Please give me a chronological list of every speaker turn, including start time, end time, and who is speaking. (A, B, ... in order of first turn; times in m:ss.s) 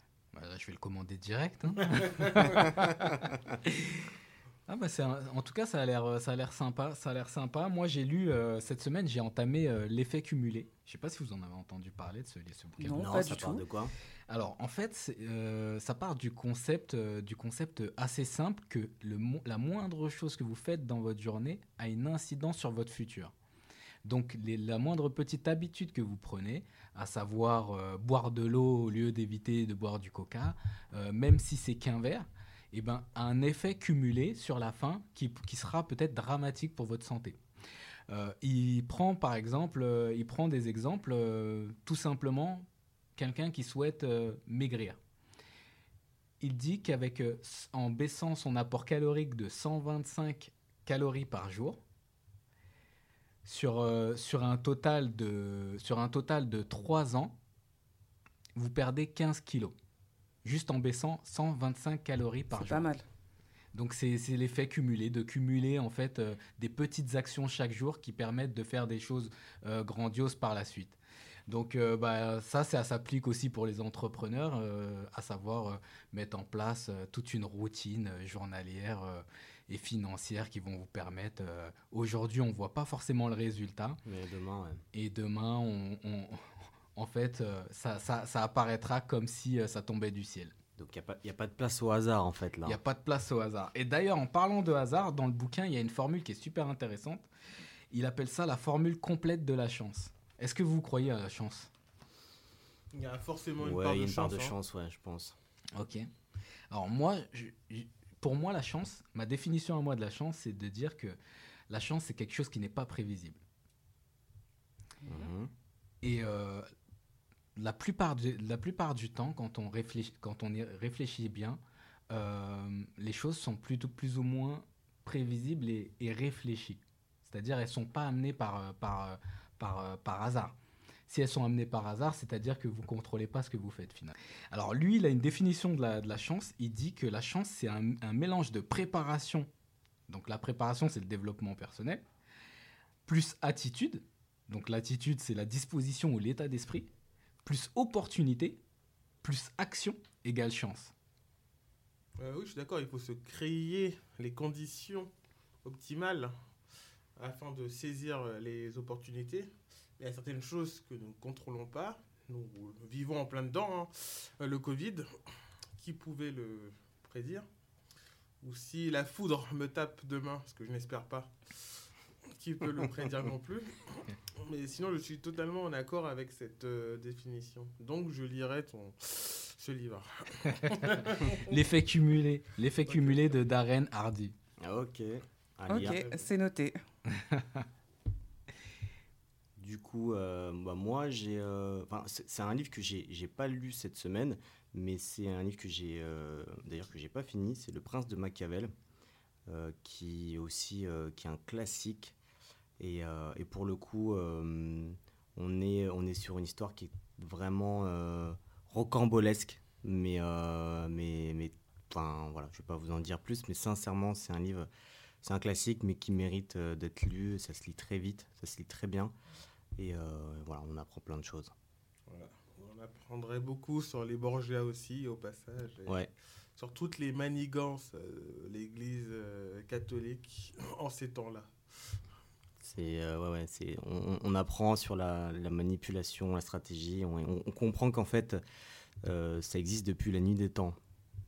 0:00.3-0:02.9 A
0:03.7-0:04.0 A
0:04.7-0:13.4 A
0:12.8-0:13.6 B
0:13.0-0:13.9 C
0:14.3-0:23.3 A
0:24.0-0:37.4 A
0:38.1-0:45.0 A
0:46.4-0:51.8 A
0:53.4-0:57.3 A
0:58.6-0:59.7 A
1:00.4-1:02.9 A
1:02.5-1:03.0 B
1:03.7-1:24.0 A
1:24.0-1:24.8 C
1:24.9-1:26.4 A
1:26.9-1:30.5 A
1:30.8-1:32.8 C
1:32.6-1:37.3 A
1:37.9-1:41.7 A
1:42.9-1:44.5 D
1:43.6-1:45.3 C
1:45.7-1:46.1 A
1:46.7-1:51.2 A
1:51.7-1:53.4 A
1:55.1-1:55.5 C
1:56.0-1:56.7 A
1:57.6-2:10.5 A
2:11.1-2:19.5 A
2:20.1-2:22.0 A
2:23.0-2:26.9 A
2:27.4-2:28.6 A
2:29.2-2:30.9 A
2:32.2-2:35.1 D
2:35.6-2:36.3 D
2:37.2-2:45.1 D
2:45.8-2:47.4 D
2:48.4-2:53.8 D
2:54.4-3:01.4 D
3:01.5-3:04.3 A
3:02.8-3:03.4 D
3:04.6-3:06.1 C
3:05.7-3:06.8 B
3:05.7-3:06.2 D
3:07.2-3:07.4 A
3:09.6-3:18.7 C
3:19.5-3:22.1 C
3:22.8-3:34.7 C
3:35.2-3:39.1 C
3:39.8-3:41.5 C
3:42.1-3:46.0 D
3:46.6-3:51.6 D
3:52.6-3:58.4 C
3:59.0-4:00.8 C